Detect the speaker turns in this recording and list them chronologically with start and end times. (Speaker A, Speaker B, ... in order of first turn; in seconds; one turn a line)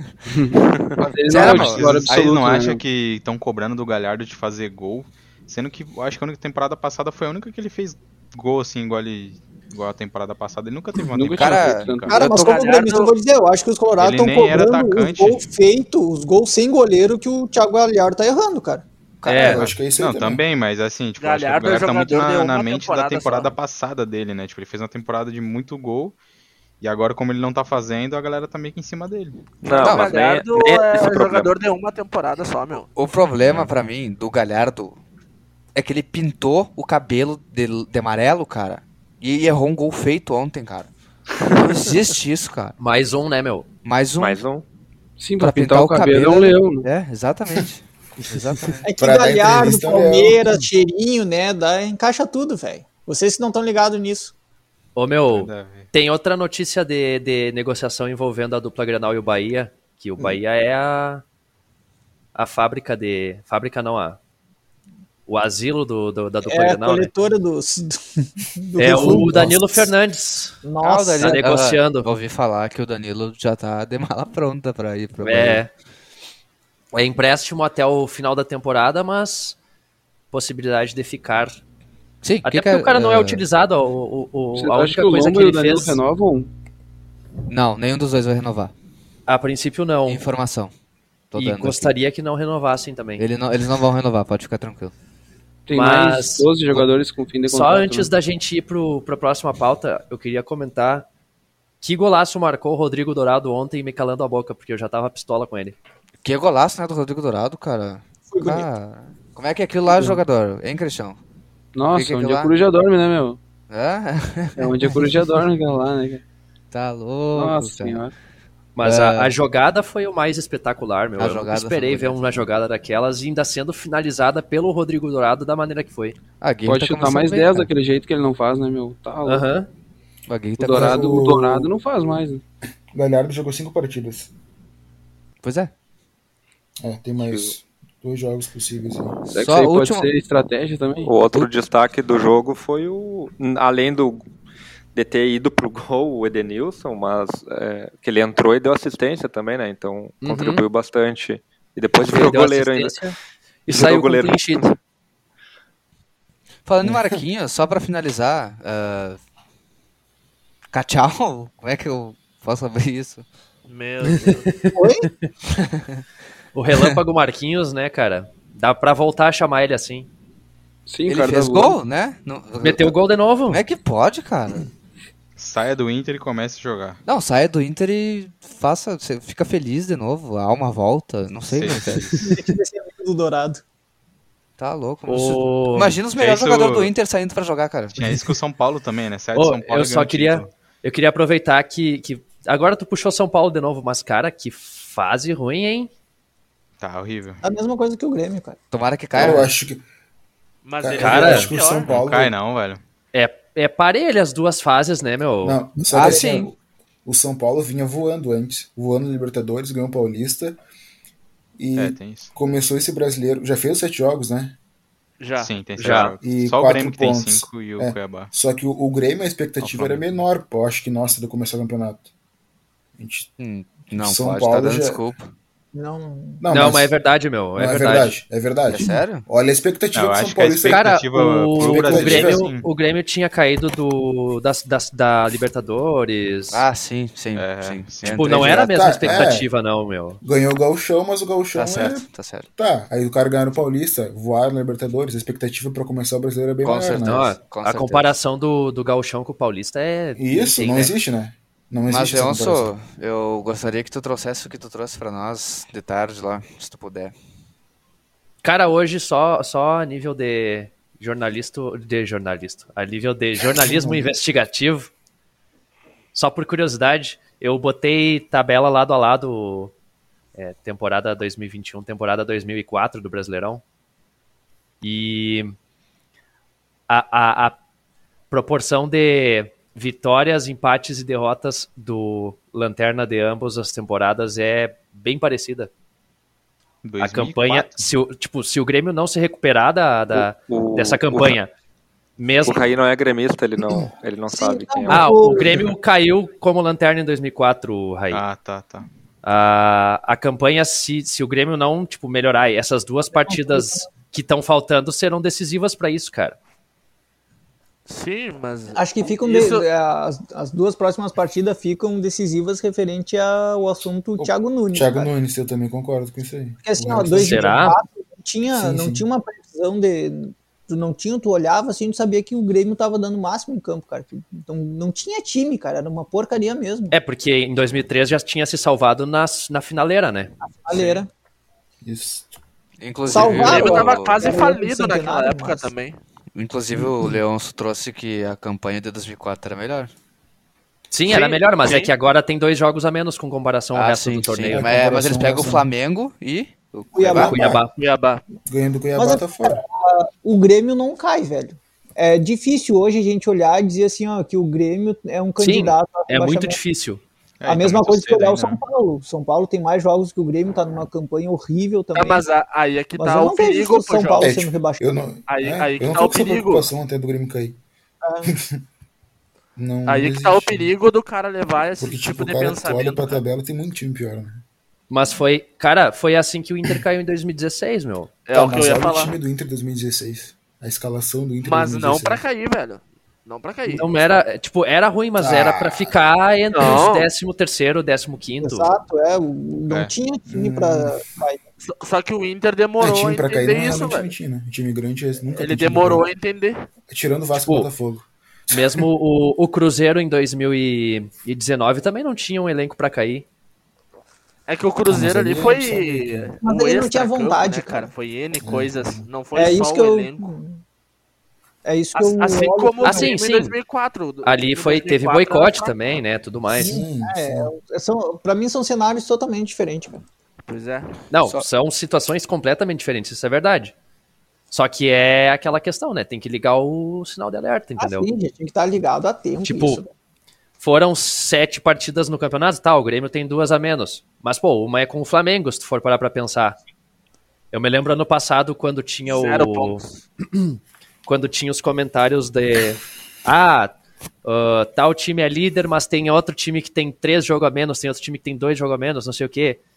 Speaker A: 0.3-2.8
Speaker B: 1.2-2.4
Speaker C: 1.3-12.2
Speaker A: 11.1-12.2
Speaker B: 11.3-12.6
Speaker D: 12.1-18.9
Speaker E: 12.3-13.1
Speaker C: 14.0-15.4
Speaker F: 19.2-19.6
Speaker G: 19.4-20.4
Speaker C: 19.5-26.1
Speaker E: 21.2-23.5
Speaker C: 26.8-29.5
Speaker H: 29.6-31.5
Speaker E: 29.6-32.9
Speaker B: 29.8-30.1
Speaker B: 33.0-35.0
Speaker B: 35.7-40.9
Speaker B: 41.5-42.8
Speaker F: 42.8-43.6
Speaker B: 43.8-44.4
Speaker H: 44.2-44.6
Speaker A: 45.2-46.9
Speaker B: 45.4-48.9
Speaker D: 48.8-54.3
Speaker G: 49.0-50.4
Speaker F: 55.0-61.2
Speaker C: 55.3-55.9
Speaker F: 62.3-64.2
Speaker F: 65.3-67.1
Speaker D: 66.5-69.8
Speaker F: 68.8-70.6
Speaker D: 70.6-71.4
Speaker B: 70.8-75.6
Speaker F: 71.2-72.1
Speaker F: 75.2-75.7
Speaker F: 76.9-79.6
Speaker F: 80.3-81.6
Speaker B: 82.2-83.4
Speaker F: 82.4-86.0
Speaker A: 84.5-86.5
Speaker B: 87.5-88.7
Speaker F: 89.3-90.2
Speaker B: 90.0-90.7
Speaker B: 91.3-91.9
Speaker F: 91.3-93.2
Speaker B: 93.2-94.9
Speaker A: 95.7-98.1
Speaker F: 95.7-96.8
Speaker F: 97.5-101.0
Speaker F: 101.8-105.8
Speaker B: 106.2-111.2
Speaker D: 108.3-108.7
Speaker A: 109.9-110.2
Speaker A: 111.7-113.4
Speaker B: 111.9-112.5
Speaker B: 113.7-115.0
Speaker A: 114.6-116.2
Speaker B: 116.7-118.0
Speaker A: 117.3-118.1
Speaker F: 118.8-126.2
Speaker B: 118.8-119.4
Speaker B: 121.2-122.3
Speaker B: 126.4-127.7
Speaker A: 126.6-129.5
Speaker F: 129.2-129.7
Speaker B: 130.3-131.0
Speaker A: 130.6-132.4
Speaker G: 130.7-131.7
Speaker G: 132.9-134.3
Speaker B: 135.4-135.7
Speaker G: 136.8-139.2
Speaker H: 137.2-137.6
Speaker A: 139.3-141.1
Speaker B: 139.3-140.1
Speaker H: 141.0-144.3
Speaker H: 144.9-153.0
Speaker F: 150.2-150.6
Speaker F: 152.0-153.2
Speaker F: 153.7-154.7
Speaker H: 153.7-154.7
Speaker B: 156.7-159.2
Speaker G: 156.8-157.2
Speaker B: 160.7-163.2
Speaker E: 163.7-164.5
Speaker F: 164.3-165.2
Speaker D: 164.7-165.1
Speaker B: 165.6-166.0
Speaker F: 166.5-170.1
Speaker A: 170.8-171.8
Speaker B: 171.1-172.9
Speaker F: 172.6-173.6
Speaker B: 173.5-174.7
Speaker C: 175.4-177.0
Speaker B: 177.1-182.2
Speaker C: 181.5-182.1
Speaker D: 182.2-183.6
Speaker B: 184.6-188.2
Speaker F: 185.1-185.9
Speaker C: 186.2-186.9
Speaker C: 187.9-190.5
Speaker F: 189.3-195.9
Speaker C: 196.8-197.4
Speaker D: 197.4-198.6
Speaker B: 198.7-199.5
Speaker G: 199.1-199.8
Speaker E: 200.6-201.9
Speaker G: 200.8-202.3
Speaker F: 201.0-201.5
Speaker C: 201.9-202.8
Speaker F: 203.1-206.5
Speaker G: 205.4-210.6
Speaker B: 205.8-206.5
Speaker G: 211.6-214.6
Speaker C: 211.8-212.3
Speaker E: 215.2-215.5
Speaker C: 215.4-218.3
Speaker F: 215.8-216.2
Speaker G: 216.2-222.0
Speaker C: 219.6-220.2
Speaker G: 222.9-223.3
Speaker B: 223.4-225.3
Speaker G: 223.9-225.0
Speaker D: 225.7-226.4
Speaker G: 226.4-226.9
Speaker F: 226.5-228.1
Speaker G: 227.6-230.8
Speaker B: 228.7-229.2
Speaker C: 229.9-232.7
Speaker F: 230.7-236.6
Speaker G: 231.5-232.5
Speaker B: 236.5-238.6
Speaker C: 237.3-238.4
Speaker F: 238.1-240.2
Speaker G: 238.3-239.5
Speaker G: 240.2-247.3
Speaker B: 241.5-242.4
Speaker B: 246.6-248.2
Speaker F: 247.1-250.9
Speaker G: 250.2-252.7
Speaker B: 251.9-257.1
Speaker F: 258.4-264.9
Speaker G: 263.6-264.0
Speaker F: 266.1-269.7
Speaker F: 270.3-273.6
Speaker F: 274.8-275.5
Speaker F: 276.9-277.6
Speaker F: 278.3-285.7
Speaker C: 286.8-287.8
Speaker F: 287.0-291.5
Speaker H: 290.1-291.4
Speaker F: 292.2-292.6
Speaker H: 292.4-295.3
Speaker D: 294.3-295.7
Speaker F: 294.9-298.2
Speaker C: 298.1-298.9
Speaker F: 299.2-306.4
Speaker D: 303.1-303.9
Speaker E: 307.9-309.7
Speaker D: 308.7-315.1
Speaker G: 314.2-317.6
Speaker D: 316.6-327.0
Speaker F: 317.2-317.8
Speaker G: 318.5-319.1
Speaker F: 326.9-331.0
Speaker D: 330.4-331.1
Speaker G: 331.8-332.3
Speaker B: 332.8-334.2
Speaker D: 333.1-335.7
Speaker E: 333.2-336.0
Speaker B: 336.3-339.9
Speaker F: 340.9-344.7
Speaker E: 341.1-341.9
Speaker B: 343.7-347.3
Speaker G: 344.5-345.7
Speaker D: 346.9-347.4
Speaker G: 347.1-347.6
Speaker F: 347.1-347.7
Speaker E: 347.7-348.2
Speaker G: 348.5-349.6
Speaker D: 348.9-356.6
Speaker F: 355.4-357.0
Speaker C: 357.4-358.6
Speaker D: 357.5-362.2
Speaker E: 361.9-364.3
Speaker D: 363.0-364.9
Speaker G: 364.2-367.6
Speaker E: 365.3-366.7
Speaker D: 368.0-368.3
Speaker G: 368.2-368.6
Speaker G: 369.6-370.7
Speaker E: 369.9-373.2
Speaker G: 371.8-374.4
Speaker F: 374.9-378.1
Speaker E: 378.3-379.1
Speaker G: 378.3-382.2
Speaker E: 381.4-384.2
Speaker F: 383.7-388.7
Speaker G: 385.2-386.0
Speaker E: 386.5-387.1
Speaker D: 388.4-391.4
Speaker C: 389.7-389.9
Speaker G: 390.3-391.0
Speaker E: 391.6-394.1
Speaker G: 392.8-396.1
Speaker E: 395.3-396.6
Speaker G: 396.9-398.5
Speaker F: 398.5-403.2
Speaker E: 404.5-410.3
Speaker G: 404.9-406.3
Speaker D: 406.4-407.9
Speaker G: 408.4-409.1
Speaker D: 409.3-410.6
Speaker D: 411.6-413.1
Speaker E: 411.9-415.8
Speaker F: 412.8-413.6
Speaker F: 414.2-416.8
Speaker D: 416.5-420.0
Speaker G: 416.5-417.5
Speaker E: 420.4-420.9
Speaker F: 421.1-423.7
Speaker F: 424.5-428.1
Speaker D: 427.8-429.9
Speaker F: 429.4-429.8
Speaker F: 430.6-436.6
Speaker F: 437.5-443.7
Speaker E: 439.1-440.0
Speaker F: 444.2-449.6